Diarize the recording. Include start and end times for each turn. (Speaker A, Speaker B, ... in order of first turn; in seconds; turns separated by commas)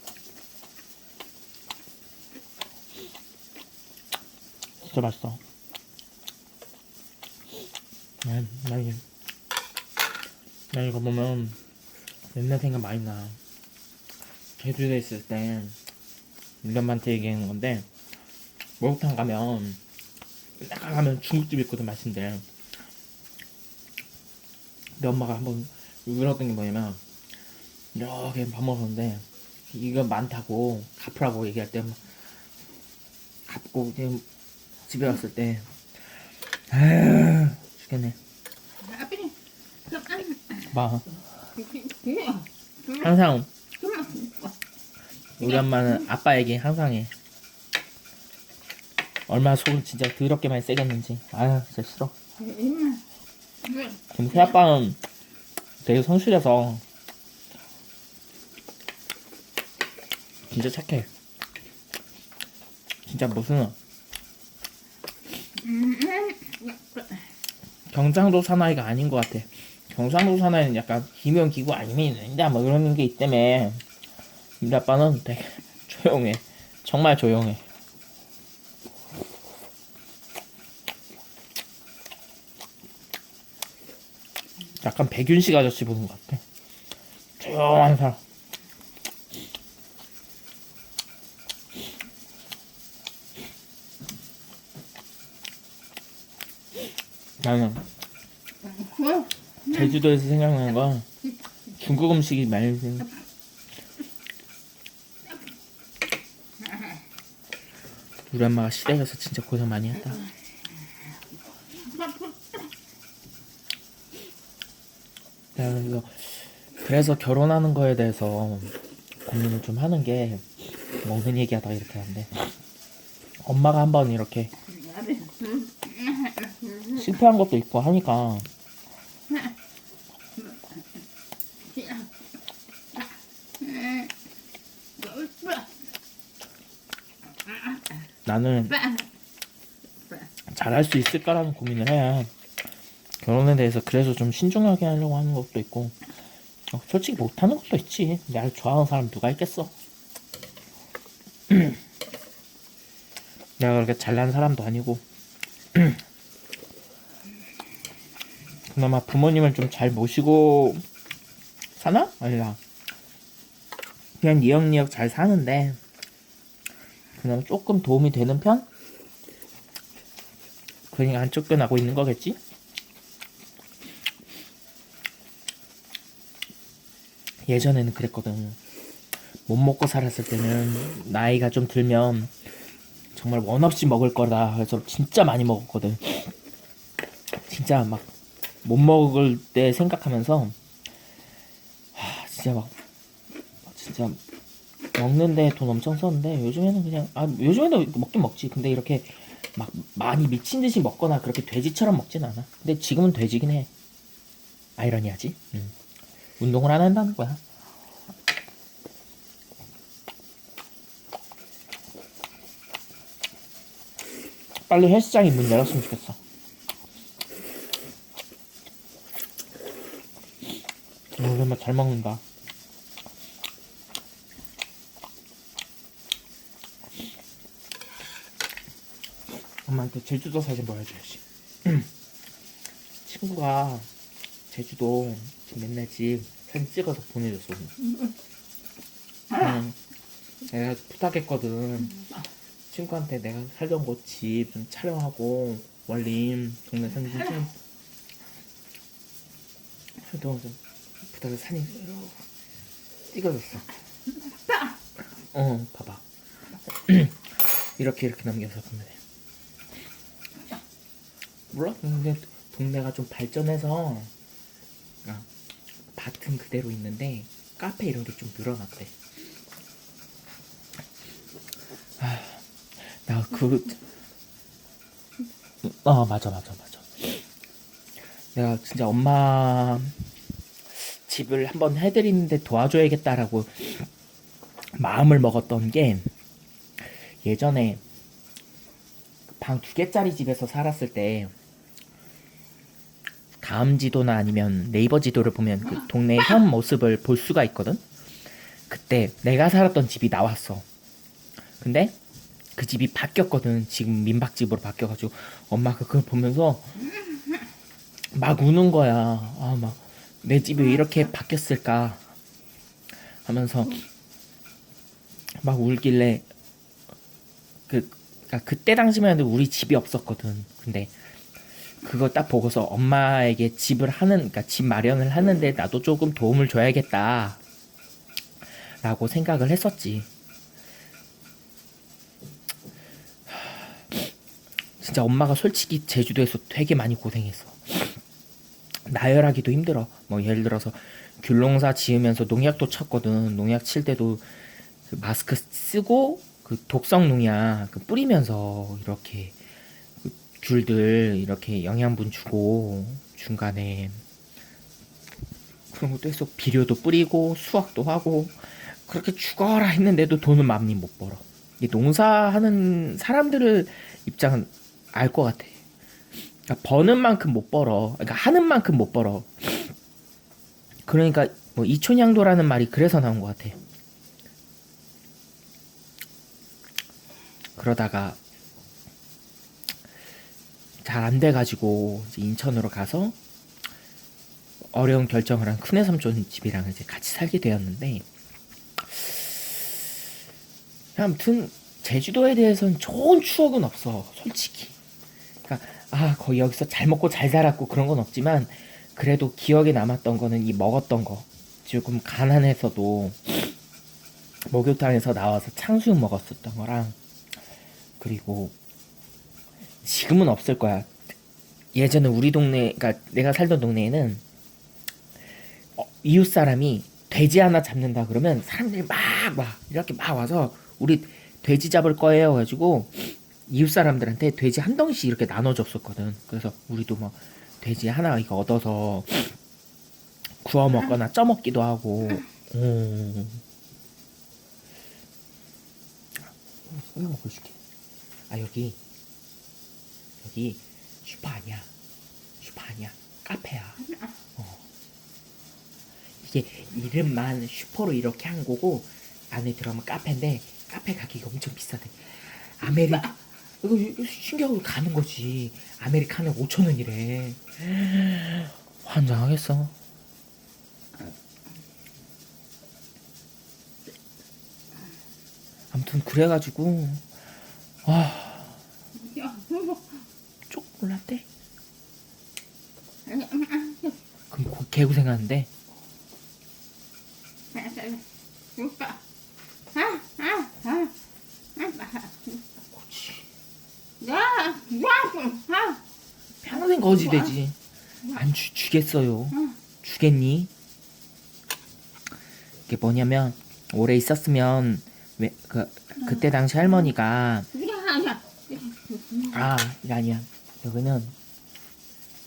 Speaker A: 4.8-5.4, Speaker A: 8.2-9.0, Speaker A: 10.7-11.6, Speaker A: 12.3-13.4, Speaker A: 14.6-15.8, Speaker A: 16.6-17.9, Speaker A: 18.8-19.8, Speaker A: 20.6-22.4, Speaker A: 25.0-27.0, Speaker A: 27.9-32.0, Speaker A: 33.5-34.2, Speaker A: 34.9-35.7, Speaker A: 36.7-38.1, Speaker B: 38.8-39.3, Speaker B: 39.9-40.7, Speaker A: 40.7-41.1, Speaker B: 41.5-43.1, Speaker A: 43.0-43.5, Speaker B: 43.7-44.5, Speaker A: 45.4-47.1, Speaker B: 45.4-46.0, Speaker A: 49.3-52.1, Speaker B: 52.4-53.0, Speaker B: 53.6-54.5, Speaker A: 54.1-55.0, Speaker A: 55.8-56.8, Speaker A: 60.5-61.1, Speaker A: 63.0-63.8, Speaker B: 65.6-67.3, Speaker A: 67.9-73.8, Speaker A: 74.6-77.6, Speaker A: 84.8-86.4, Speaker A: 87.4-88.2, Speaker A: 97.4-97.8, Speaker B: 98.6-100.0, Speaker A: 99.7-101.0, Speaker A: 101.8-103.1, Speaker B: 106.6-106.9, Speaker A: 108.3-110.2, Speaker B: 111.7-112.7, Speaker A: 115.5-118.7, Speaker A: 119.2-120.4, Speaker A: 121.0-122.5, Speaker A: 123.4-124.5, Speaker B: 124.6-127.1, Speaker A: 126.9-128.5, Speaker B: 129.3-129.6, Speaker B: 130.4-130.8, Speaker B: 131.6-132.1, Speaker B: 132.9-134.1, Speaker B: 135.0-135.7, Speaker B: 137.4-138.0, Speaker A: 138.2-138.8, Speaker B: 138.7-139.1, Speaker A: 140.5-142.3, Speaker A: 143.2-145.9, Speaker A: 146.7-149.7, Speaker A: 151.5-151.8, Speaker A: 153.6-155.0, Speaker A: 155.7-156.0, Speaker A: 158.7-160.8, Speaker A: 161.8-162.6, Speaker A: 164.2-165.8, Speaker A: 167.2-168.7, Speaker A: 170.9-172.4, Speaker A: 177.5-178.6, Speaker A: 179.5-182.3, Speaker A: 183.1-186.3, Speaker A: 187.3-188.1, Speaker A: 188.6-190.6, Speaker A: 191.9-192.7, Speaker A: 193.7-194.2, Speaker A: 194.9-203.7, Speaker A: 204.8-205.7, Speaker A: 206.4-207.4, Speaker A: 214.7-216.2, Speaker A: 221.2-222.2, Speaker A: 229.7-231.9, Speaker A: 233.0-233.9, Speaker A: 234.5-237.7, Speaker A: 239.3-239.8, Speaker A: 240.5-242.1, Speaker A: 242.7-247.5, Speaker A: 250.0-252.2, Speaker A: 253.1-253.7, Speaker B: 254.2-254.8, Speaker A: 255.3-256.0, Speaker A: 256.7-259.0, Speaker A: 261.5-264.1, Speaker A: 265.9-268.9, Speaker A: 272.0-273.8, Speaker A: 275.6-277.1, Speaker A: 278.3-280.0, Speaker A: 280.7-283.9, Speaker A: 284.7-286.1, Speaker A: 286.8-287.8, Speaker A: 289.4-291.3, Speaker A: 293.4-297.8, Speaker A: 298.7-300.6, Speaker A: 301.6-301.9, Speaker A: 302.6-306.7, Speaker B: 306.9-307.4, Speaker A: 308.1-312.0, Speaker A: 313.2-313.8, Speaker A: 315.4-316.2, Speaker A: 317.7-320.9, Speaker A: 321.8-327.4, Speaker A: 328.8-330.1, Speaker A: 333.3-334.1, Speaker A: 334.8-338.0, Speaker A: 338.9-344.3, Speaker A: 344.9-349.4, Speaker A: 350.0-354.0, Speaker A: 355.7-365.6, Speaker A: 366.5-369.7, Speaker A: 370.9-373.6, Speaker A: 377.6-378.2, Speaker A: 380.8-383.1, Speaker A: 384.7-388.0, Speaker A: 388.8-389.6, Speaker A: 390.9-394.8, Speaker A: 395.4-403.5, Speaker A: 404.4-406.9, Speaker A: 408.0-408.5, Speaker A: 409.8-410.9, Speaker A: 411.7-414.2, Speaker A: 415.8-429.4, Speaker A: 430.4-433.4, Speaker A: 436.7-437.6, Speaker A: 438.3-438.8, Speaker A: 440.2-441.7, Speaker A: 442.4-443.8, Speaker B: 443.8-444.1, Speaker A: 446.2-459.7, Speaker B: 452.6-453.1, Speaker A: 465.7-467.0, Speaker A: 467.8-468.6, Speaker B: 468.9-470.0, Speaker A: 470.5-471.2, Speaker B: 473.1-474.0, Speaker A: 474.3-475.5, Speaker B: 477.5-478.0, Speaker B: 478.6-479.0, Speaker B: 479.7-480.9, Speaker B: 481.5-482.4, Speaker A: 482.7-483.2, Speaker B: 484.0-485.8, Speaker A: 486.4-487.6, Speaker B: 486.9-487.3, Speaker A: 488.1-490.5, Speaker A: 492.7-497.5, Speaker B: 497.5-499.4, Speaker A: 499.3-501.1